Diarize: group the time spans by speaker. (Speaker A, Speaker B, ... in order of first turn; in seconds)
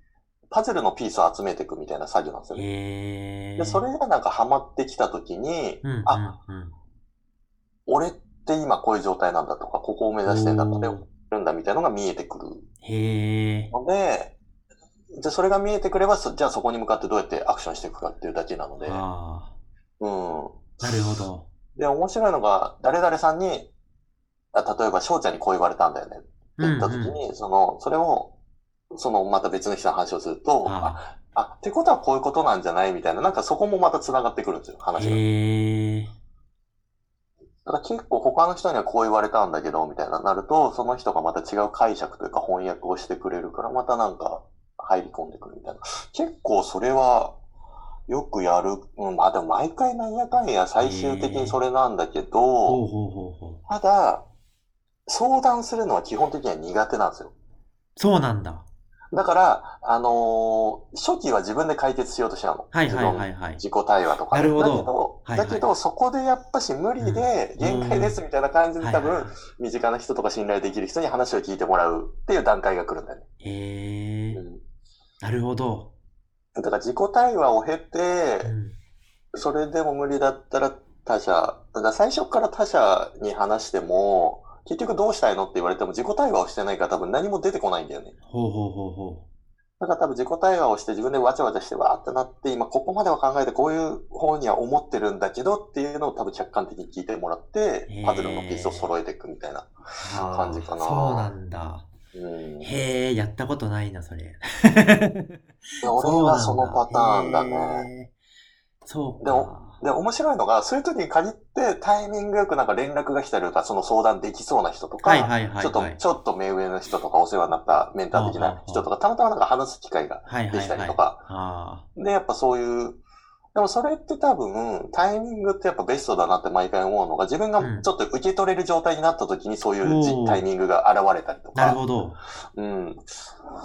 Speaker A: 0.5-2.6, 3.6-6.2, 7.9-12.6, 13.7-14.3, 15.1-19.0, 20.0-21.0, 21.8-23.7, 24.5-28.3, 28.9-35.2, 37.6-47.4, 48.1-52.8, 53.7-54.2, 55.1-57.3, 59.1-73.2, 74.3-74.6, 76.5-78.5, 79.3-88.1, 89.8-101.3, 102.1-102.7, 105.8-107.9, 109.2-121.2, 122.0-123.0, 123.5-131.8, 132.5-133.0
Speaker B: 2.5-3.8, 5.8-6.7, 10.2-11.0, 12.8-13.7, 18.8-19.5, 20.8-21.5, 26.6-27.2, 30.6-31.0, 35.0-36.1, 50.8-51.6, 52.6-53.6, 58.0-58.6, 62.7-63.6, 64.3-65.7, 67.0-68.2, 68.8-69.3, 73.4-74.4, 75.2-75.9, 78.4-78.8, 88.2-89.2, 97.9-98.9, 100.0-101.9, 102.6-108.1, 108.8-109.8, 115.0-116.0, 118.1-118.9, 120.2-121.8, 127.6-127.9, 129.8-130.5, 131.5-132.2